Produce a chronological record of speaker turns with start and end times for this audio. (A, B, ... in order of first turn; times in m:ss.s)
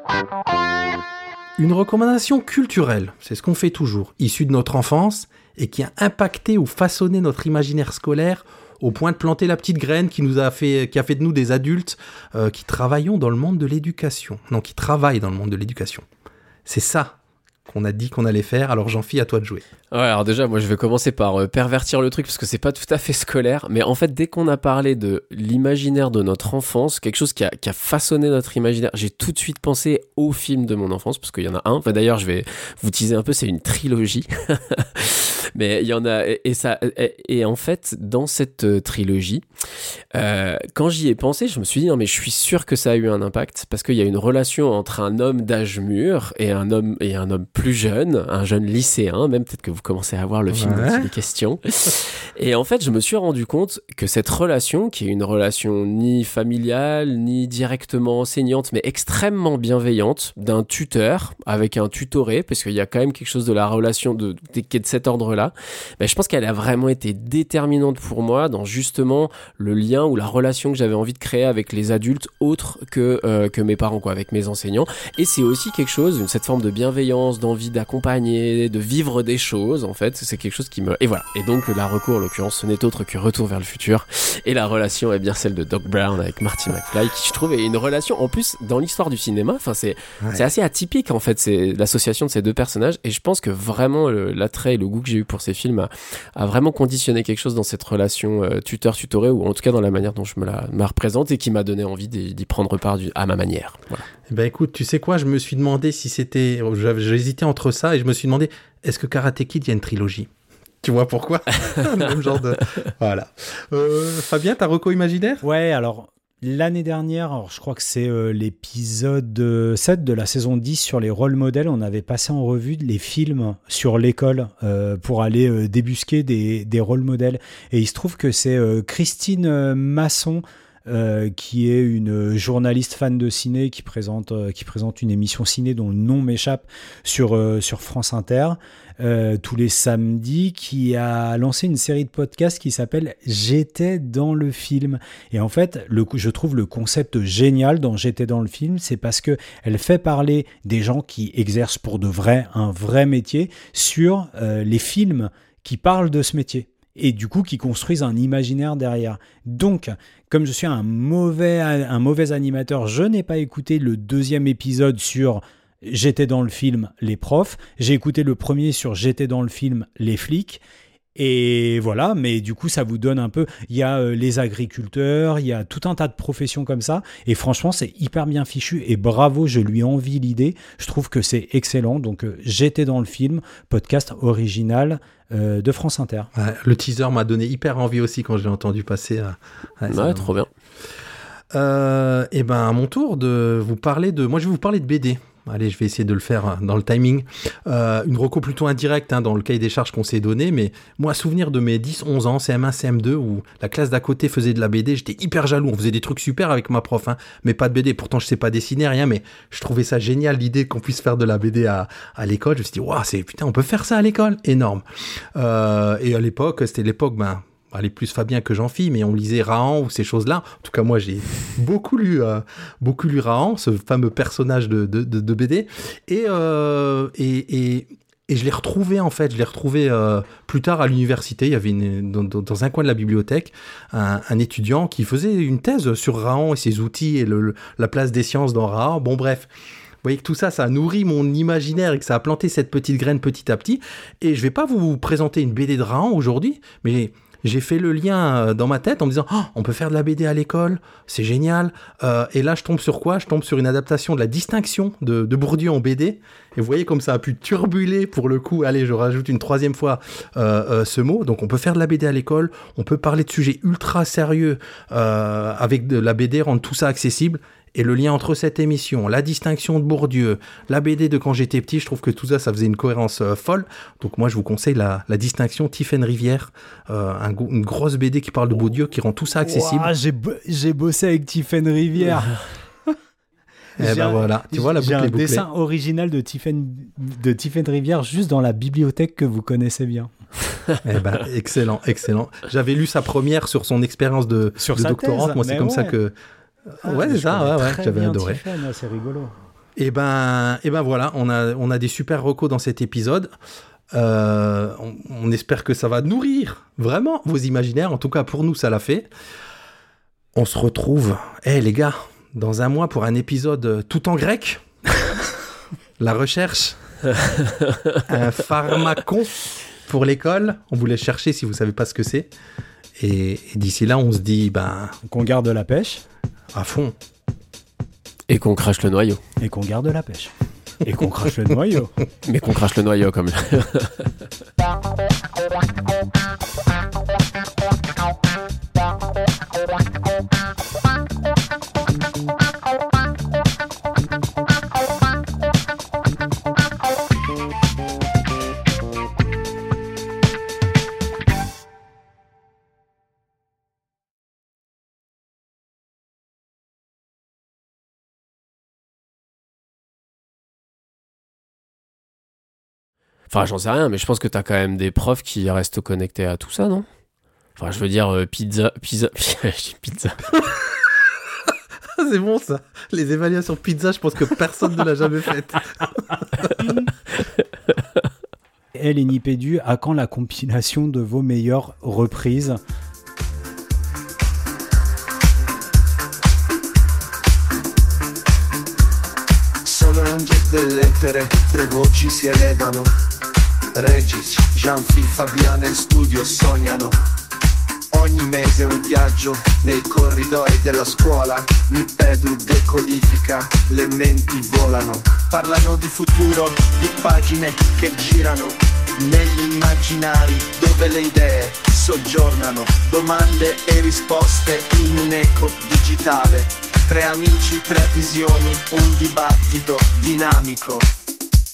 0:01.6-0:16.0 A
0:16.7-0:19.6 A
0:19.9-0:39.4 B
0:40.1-1:44.0 B
0:50.5-0:51.1 A
1:44.3-1:50.3 A
1:50.8-1:55.4 A
1:55.4-2:50.6 C
2:51.2-3:06.3 C
3:06.4-3:10.3 A
3:09.9-3:10.5 B
3:11.5-3:34.8 A
3:35.4-3:59.5 A
4:00.0-4:39.9 A
4:39.4-4:42.4 C
4:43.8-4:45.5 A
4:43.8-4:50.1 C
4:50.8-4:56.1 A
4:54.6-4:56.0 C
4:56.7-4:58.4 A
4:56.8-4:59.4 C
4:59.8-5:03.3 A
5:03.9-5:09.1 A
5:10.4-5:14.6 A
5:16.0-5:16.8 A
5:18.1-5:22.3 A
5:23.0-5:25.0 A
5:25.0-5:26.0 C
5:26.5-5:26.9 A
5:28.3-5:29.2 B
5:29.4-5:31.9 C
5:32.2-5:34.1 B
6:03.3-6:06.9 B
6:07.6-6:10.2 B
6:12.0-6:16.5 A
6:18.8-6:22.6 C
6:29.6-6:32.9 D
6:33.7-6:37.0 D
6:37.9-7:00.9 D